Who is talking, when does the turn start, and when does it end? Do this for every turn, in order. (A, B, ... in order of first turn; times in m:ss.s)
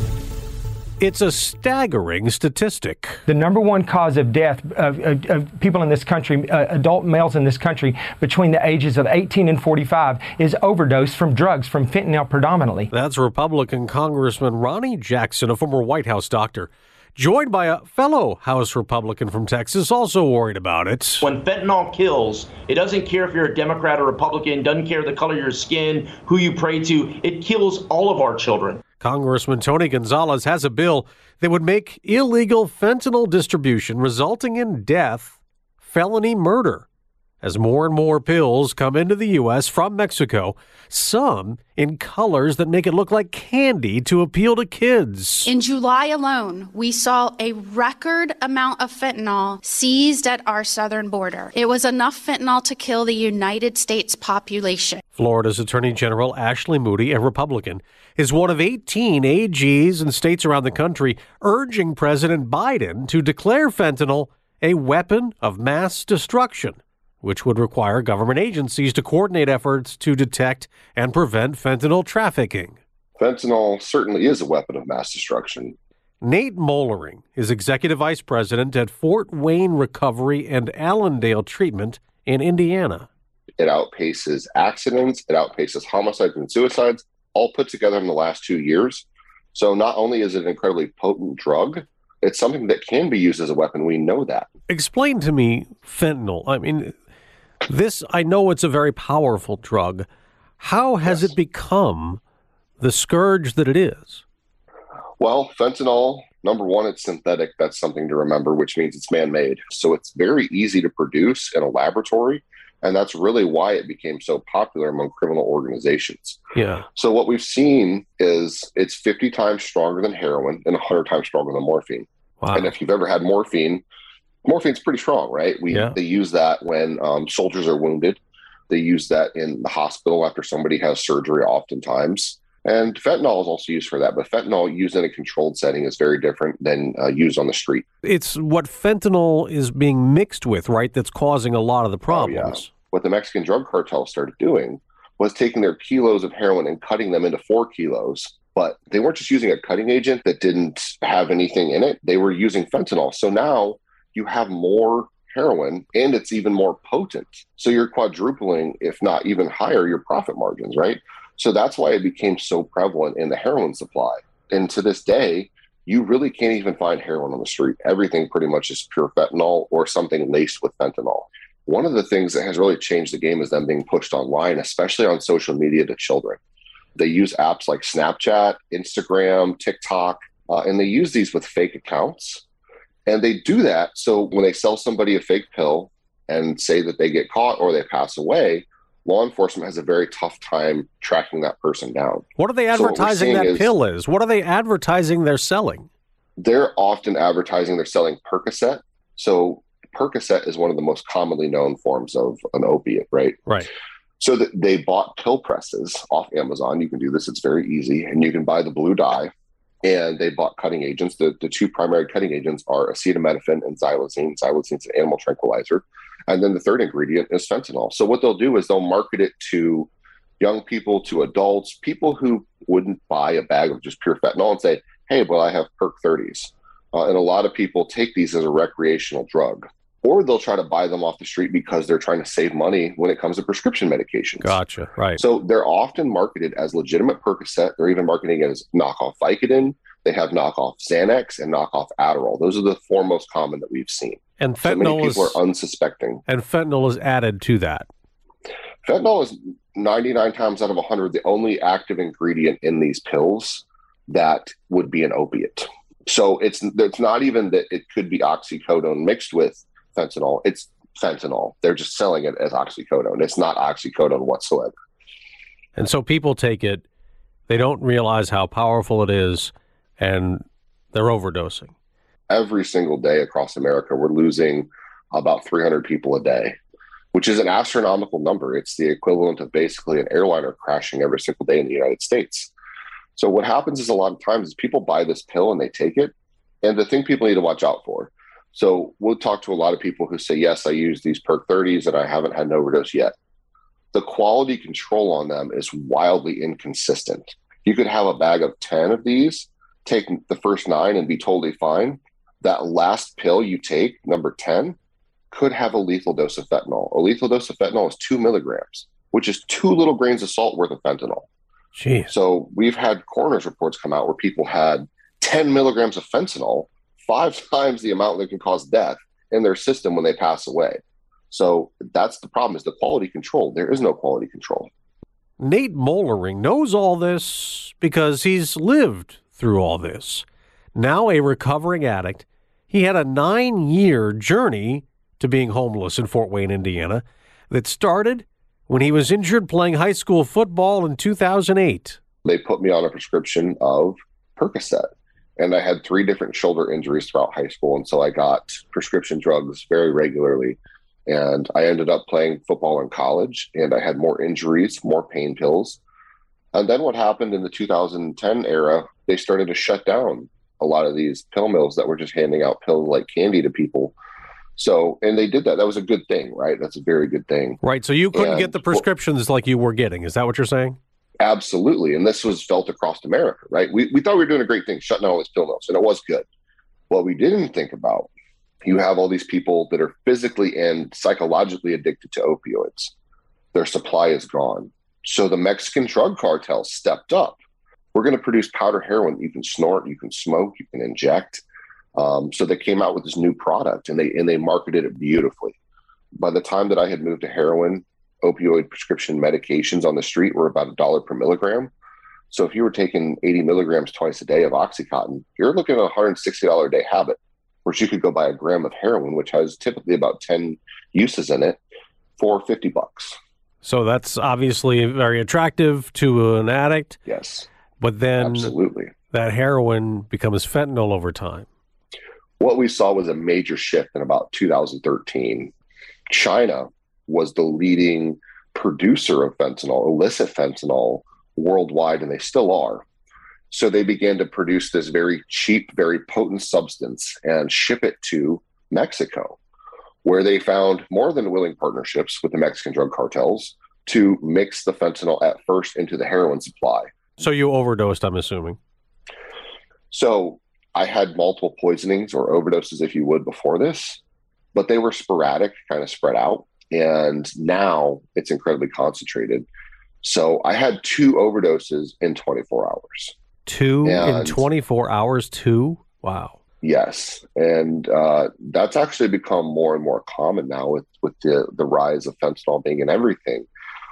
0:01.0-0:03.2 A
0:03.3-0:12.9 B
0:12.9-0:21.2 A
0:21.2-0:28.8 C
0:29.0-0:36.8 A
0:37.4-0:45.5 A
0:45.4-0:55.0 D
0:55.1-1:12.8 A
1:13.2-1:15.8 E
1:16.2-1:23.1 A
1:23.6-1:34.5 E
1:34.7-1:37.0 A
1:37.7-1:40.0 A
1:40.6-1:42.2 A
1:42.8-1:44.2 A
1:45.2-1:56.4 E
1:56.6-1:56.8 A
1:57.0-2:03.8 E
2:02.4-2:02.7 A
2:04.4-2:17.8 E
2:05.7-2:06.0 A
2:18.0-2:22.7 A
2:22.1-2:56.4 E
2:57.0-3:02.4 E
3:03.0-3:13.7 E
3:12.4-3:15.9 A
3:16.4-3:23.4 E
3:24.2-3:29.3 E
3:29.8-3:39.9 E
3:40.4-3:54.6 E
3:54.4-3:55.2 A
3:55.2-4:06.2 E
4:04.4-4:05.4 A
4:06.3-4:07.9 A
4:08.8-4:24.7 E
4:25.8-4:26.8 A
4:27.5-4:31.7 A
4:32.3-4:36.6 E
4:37.1-4:42.5 E
4:43.2-4:53.1 E
4:53.9-5:04.8 E
5:05.3-5:11.3 E
5:11.7-5:12.1 A
5:12.1-5:20.8 E
5:21.3-5:24.7 E
5:25.4-5:42.0 A
5:42.2-5:55.8 E
5:56.5-6:03.9 E
6:04.6-6:07.6 E
6:07.6-6:10.8 A
6:08.1-6:08.8 E
6:11.2-6:16.2 E
6:16.9-6:18.1 E
6:18.6-6:22.9 E
6:23.5-6:27.4 E
6:27.9-6:31.4 E
6:32.0-6:35.6 E
6:36.2-6:41.7 E
6:42.3-6:51.6 E
6:52.2-6:53.2 E
6:53.6-6:57.0 A
6:57.1-6:57.5 E
6:57.8-6:58.5 A
6:58.2-6:58.9 E
6:59.1-7:01.5 A
7:02.4-7:05.5 E
7:06.1-7:12.8 E
7:13.5-7:19.4 E
7:20.0-7:26.8 E
7:27.2-7:28.6 A
7:29.9-7:34.0 E
7:34.5-7:39.4 E
7:40.0-7:43.1 E
7:43.4-7:46.4 A
7:43.8-7:44.4 E
7:46.6-7:53.5 E